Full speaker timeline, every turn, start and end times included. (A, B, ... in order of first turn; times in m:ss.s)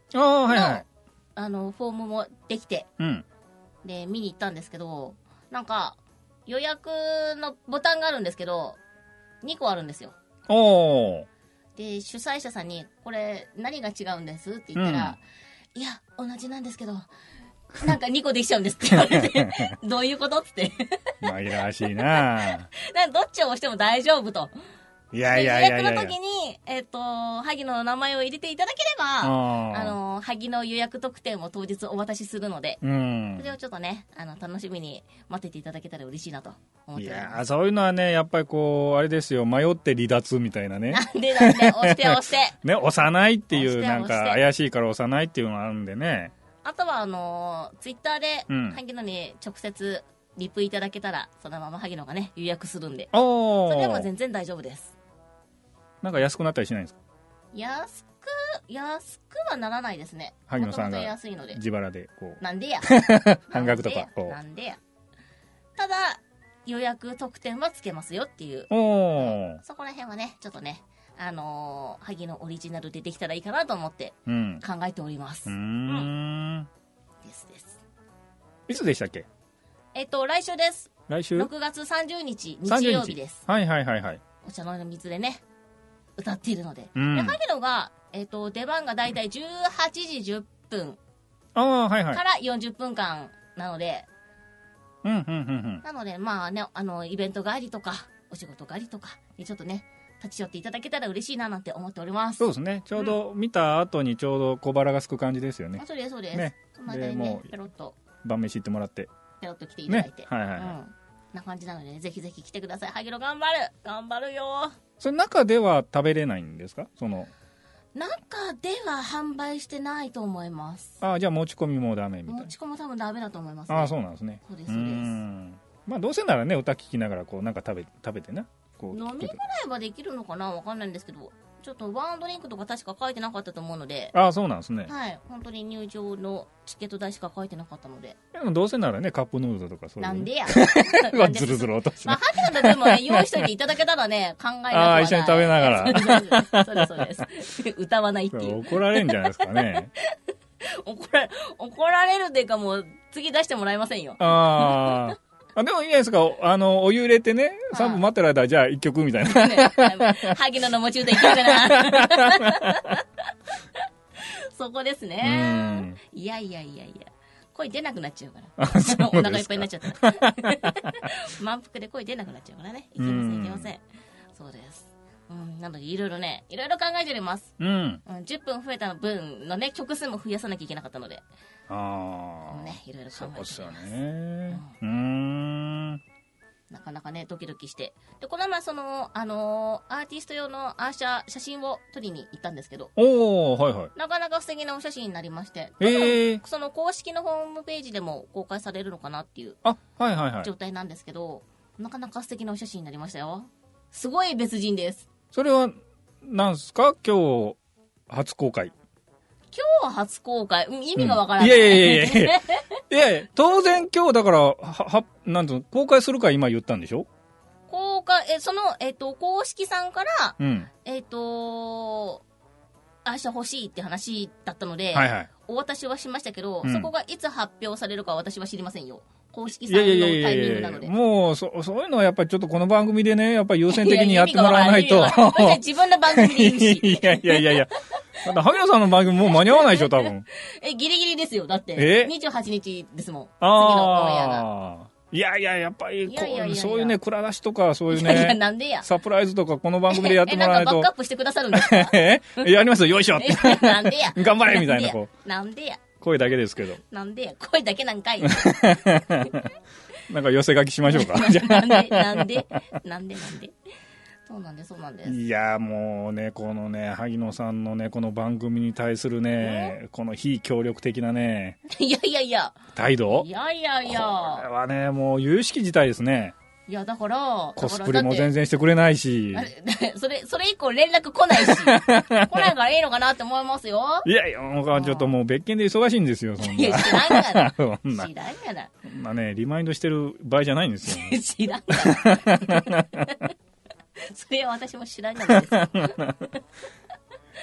0:00.1-0:00.8 A
0:00.5-0:00.8 B
0:01.4-0:02.9 B
0:03.0-0:03.2 A
0:03.8-0:08.8 B
0:09.4-0:10.1 B
0:10.5-0:11.3 A
0:11.8-0:15.2 B
0:14.8-0:15.2 A
0:15.7-0:17.1 B
0:17.8-0:21.3 B
0:18.9-0:19.7 A
0:21.2-0:22.7 A
0:21.9-0:24.5 B
0:25.1-0:26.1 A
0:25.2-0:32.8 B
0:29.2-0:30.0 A
0:32.8-0:33.5 A
0:33.4-0:37.4 B
0:37.0-0:46.3 A
0:40.9-0:42.6 B
0:43.5-0:44.4 B
0:46.6-0:53.1 B
0:48.5-0:48.8 A
0:53.1-0:54.1 A
0:53.6-0:54.9 B
0:56.0-0:57.0 A
0:57.5-1:01.6 B
1:00.5-1:04.4 A
1:02.4-1:04.8 B
1:05.8-1:16.1 B
1:08.7-1:09.6 A
1:14.3-1:14.6 A
1:15.4-1:16.7 A
1:17.2-1:17.8 B
1:18.7-1:19.3 A
1:19.9-1:23.4 B
1:21.1-1:21.5 A
1:22.6-1:24.2 A
1:24.4-1:25.4 B
1:26.2-1:31.0 B
1:27.0-1:27.4 A
1:31.5-1:32.2 A
1:32.1-1:34.1 B
1:35.0-1:35.8 A
1:35.8-1:43.1 B
1:42.4-1:47.5 A
1:45.8-1:48.0 B
1:48.2-1:49.1 A
1:49.4-1:54.8 B
1:49.9-1:50.8 A
1:55.0-1:57.3 A
1:57.9-2:01.0 B
2:01.0-2:02.5 A
2:02.3-2:03.9 B
2:03.7-2:09.4 A
2:04.4-2:05.2 B
2:08.9-2:14.1 B
2:14.1-2:14.9 A
2:14.8-2:18.2 B
2:18.3-2:23.4 A
2:20.0-2:35.1 B
2:24.7-2:27.1 A
2:28.3-2:29.9 A
2:34.2-2:40.4 A
2:37.7-2:38.0 B
2:39.2-2:43.0 B
2:41.1-2:42.8 A
2:44.2-2:53.8 B
2:45.2-2:46.0 A
2:48.6-2:51.0 A
2:53.0-2:53.7 A
2:54.3-2:57.5 B
2:57.6-2:58.0 A
2:58.0-3:01.2 B
3:01.7-3:06.0 A
3:02.5-3:03.9 B
3:04.5-3:04.7 B
3:06.7-3:12.9 B
3:13.0-3:13.9 A
3:13.9-3:19.6 B
3:15.8-3:16.4 A
3:19.6-3:20.5 A
3:20.4-3:25.1 B
3:25.3-3:27.6 A
3:28.1-3:28.7 A
3:29.5-3:32.8 B
3:31.0-3:37.1 A
3:37.7-3:42.2 B
3:40.4-3:40.7 A
3:43.0-3:50.9 B
3:44.9-3:45.3 A
3:46.6-3:46.9 A
3:49.6-4:00.2 A
3:53.7-3:57.6 B
3:59.2-4:04.4 B
4:01.8-4:02.1 A
4:03.4-4:10.9 A
4:06.0-4:07.0 B
4:07.9-4:08.9 B
4:09.9-4:15.8 B
4:11.5-4:15.1 A
4:16.0-4:16.8 A
4:16.9-4:19.3 B
4:18.3-4:19.5 A
4:20.1-4:22.4 A
4:20.9-4:23.5 B
4:24.3-4:25.2 B
4:25.0-4:31.6 A
4:29.4-4:29.8 B
4:31.7-4:34.5 B
4:32.7-4:33.3 A
4:33.8-4:36.3 A
4:36.7-4:38.3 B
4:37.6-4:39.5 A
4:39.3-4:44.1 B
4:41.4-4:42.5 A
4:44.0-4:48.1 A
4:44.7-4:45.1 B
4:46.4-4:48.7 B
4:48.8-4:51.2 A
4:50.9-4:53.3 B
4:51.7-4:53.1 A
4:54.0-4:56.4 B
4:55.3-4:56.3 A